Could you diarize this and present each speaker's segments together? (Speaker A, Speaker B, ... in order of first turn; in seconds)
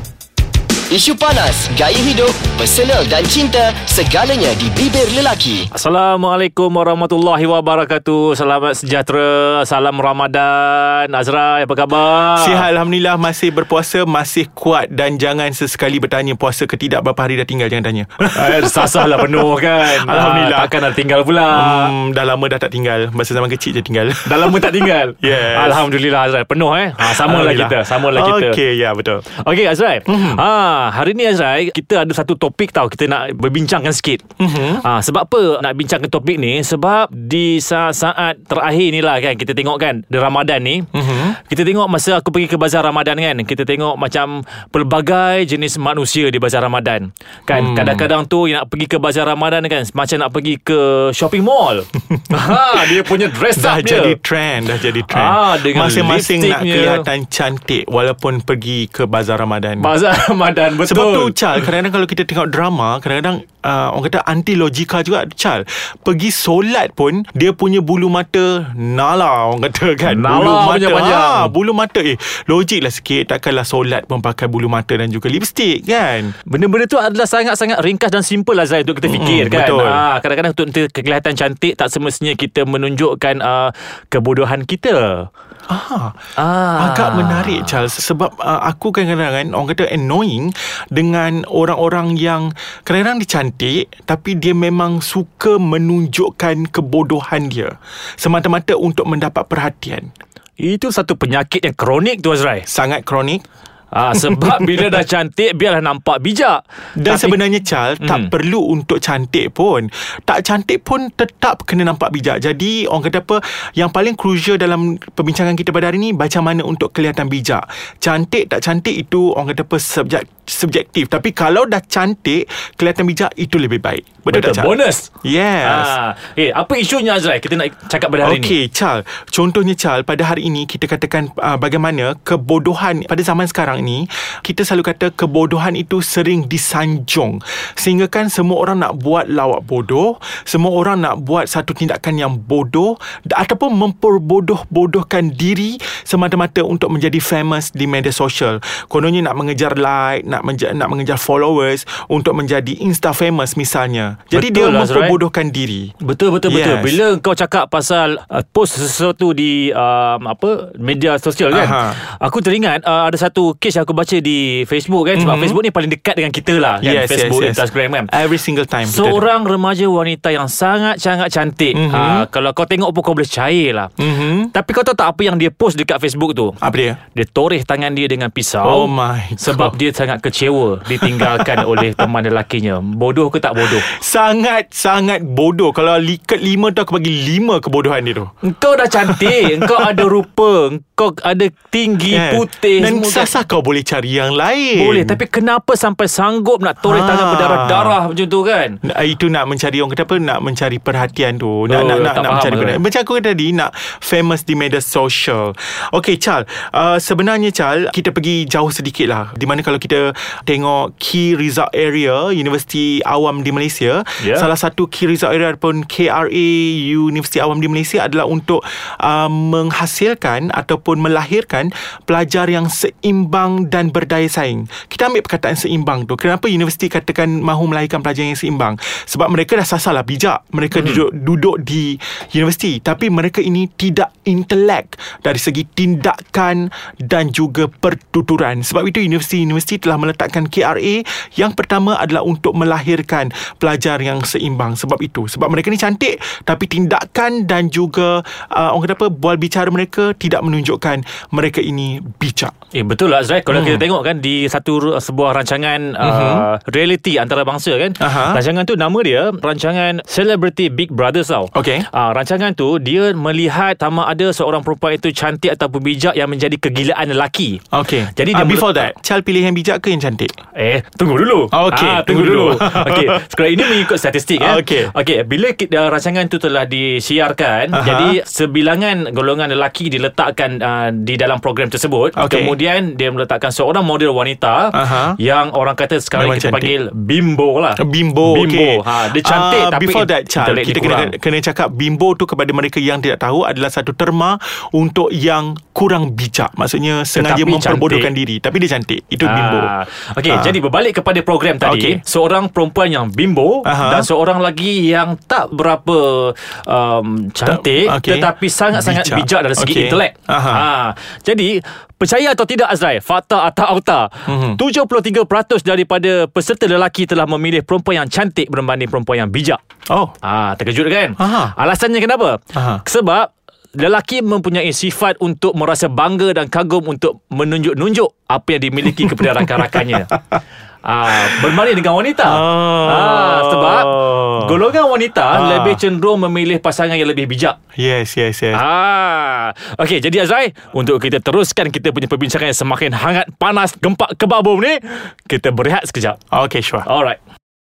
Speaker A: 0.9-5.7
Speaker B: 5.7-12.7, 18.2-21.9, 24.2-28.6, 29.3-54.2, 55.0-57.1, 59.8-61.6, 70.1-71.5, 76.5-85.3, 86.4-87.7, 100.6-102.7, 103.9-107.4, 108.0-108.3, 124.3-125.1, 125.6-128.6, 154.3-155.2, 156.0-168.1, 168.8-173.9, 174.5-176.6, 177.1-183.8, 188.4-193.3, 194.7-198.8, 201.7-202.8, 214.2-214.5, 230.7-231.0, 252.7-267.6, 268.1-268.8, 270.6-291.1, 297.1-298.1, 299.2-319.6, 320.2-330.1, 330.8-337.6, 338.5-346.2, 346.8-347.2
Speaker C: 12.3-20.8, 21.5-25.9, 27.0-29.2, 30.1-30.4, 34.4-34.8, 40.9-41.4, 47.5-48.1, 52.1-59.9, 60.8-76.3, 79.0-80.0, 85.7-86.2, 86.8-100.1, 102.7-103.4, 104.1-104.9, 107.0-125.9, 128.2-155.9, 156.5-157.0, 161.5-162.0, 165.1-165.6, 166.8-169.3, 171.7-172.2, 174.0-174.5, 176.6-177.0, 178.6-179.8, 180.9-182.1, 183.6-188.3, 189.0-190.1, 192.1-195.2, 196.8-198.0, 198.8-252.5, 253.5-253.8, 256.0-256.5, 258.0-258.4, 261.5-261.9, 267.7-270.3, 271.5-274.9, 277.7-278.2, 282.1-282.5, 284.7-285.2, 286.1-286.7, 287.8-299.7, 300.3-300.6, 301.6-302.0, 303.6-304.1, 307.4-310.6, 314.2-314.6, 319.9-320.1, 321.2-321.5, 322.5-322.8, 328.9-330.1, 332.2-334.6, 335.3-335.8, 337.8-338.6, 346.3-346.9